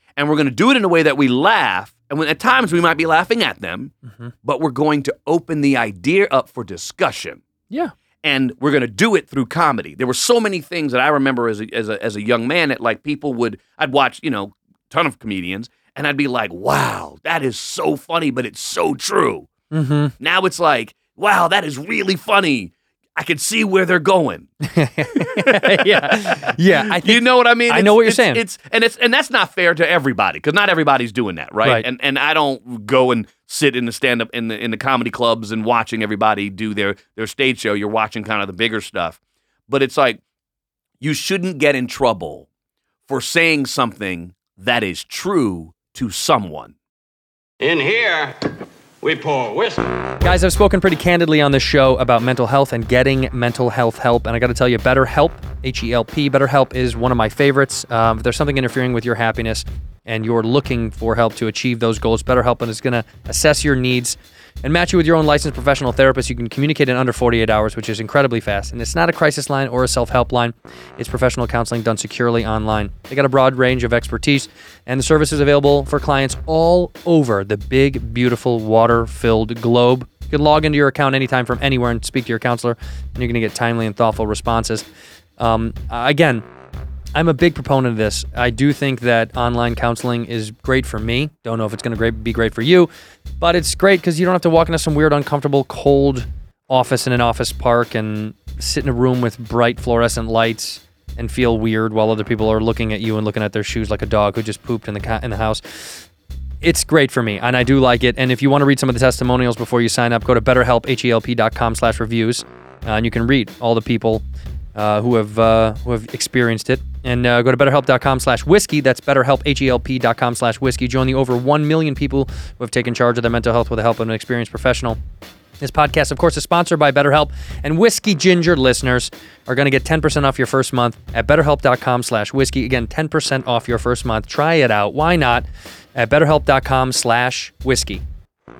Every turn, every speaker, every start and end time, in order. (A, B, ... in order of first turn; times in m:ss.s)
0:00.2-0:03.9 A
0:04.4-0:07.4 A
0:08.2-0:19.5 A
0:19.7-0:20.1 B
0:20.2-0:24.5 A
0:24.6-0:28.4 B
0:25.1-0:40.2 A
0:41.0-0:42.5 A
0:43.1-0:46.7 A
0:47.6-0:48.4 C
0:49.0-0:50.4 C
0:50.2-1:24.8 B
1:25.4-1:26.4 B
1:27.1-1:32.9 B
1:33.4-1:46.0 B
1:46.6-1:54.2 B
1:54.7-2:05.0 B
2:05.6-2:18.0 B